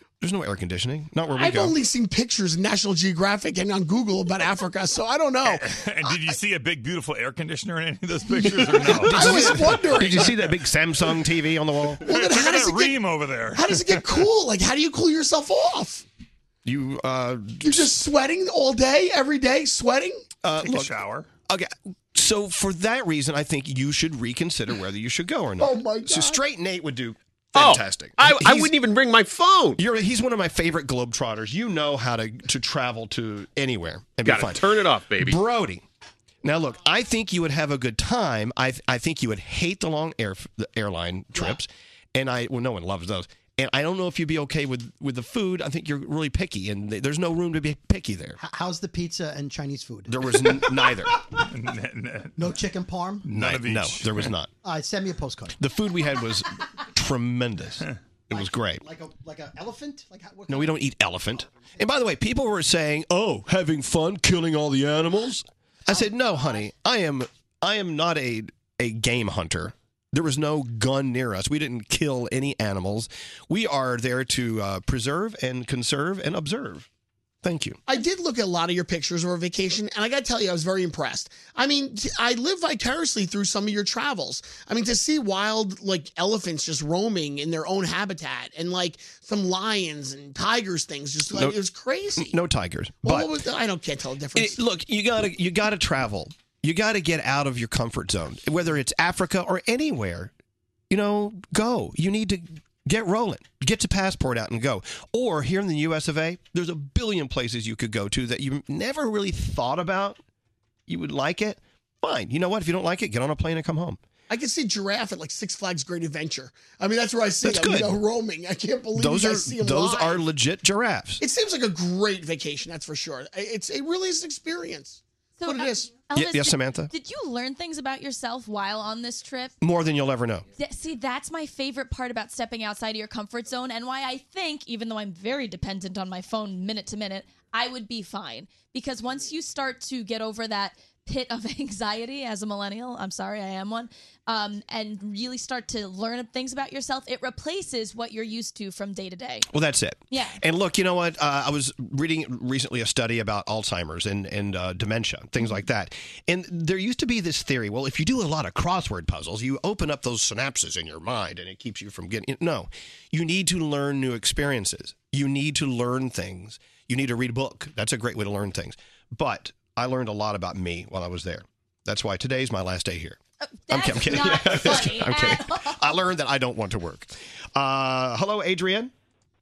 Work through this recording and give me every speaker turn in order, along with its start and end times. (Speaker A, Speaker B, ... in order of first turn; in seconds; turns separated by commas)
Speaker A: 0.2-1.8, Speaker B: 1.3-5.7, Speaker C: 5.5-10.3, Speaker B: 8.4-10.3, Speaker A: 8.8-12.0, Speaker C: 12.0-14.2, Speaker B: 12.1-13.0, Speaker B: 13.5-16.0, Speaker A: 16.6-17.9, Speaker B: 17.6-20.2, Speaker A: 20.4-28.7, Speaker C: 20.6-21.3, Speaker D: 27.6-29.8, Speaker A: 29.8-35.9, Speaker D: 34.2-35.4, Speaker A: 36.4-48.4, Speaker E: 48.4-50.2, Speaker A: 50.1-51.1, Speaker C: 51.5-52.5, Speaker E: 52.4-53.3, Speaker C: 53.3-54.3, Speaker A: 53.3-54.5, Speaker E: 54.6-55.5, Speaker A: 55.6-58.9, Speaker E: 58.3-60.9, Speaker A: 60.5-76.9, Speaker A: 77.4-77.8, Speaker B: 77.9-92.3, Speaker A: 92.2-93.4, Speaker B: 93.0-94.6, Speaker A: 94.3-100.3, Speaker A: 100.9-110.2, Speaker A: 110.9-114.0, Speaker B: 114.3-120.2, Speaker A: 117.4-118.0, Speaker A: 119.0-121.2, Speaker B: 121.2-125.9, Speaker F: 125.4-129.6, Speaker A: 126.1-126.9, Speaker A: 129.6-130.4, Speaker F: 130.6-149.5, Speaker A: 149.5-173.2, Speaker F: 150.1-150.4, Speaker F: 173.7-176.0, Speaker A: 173.7-178.9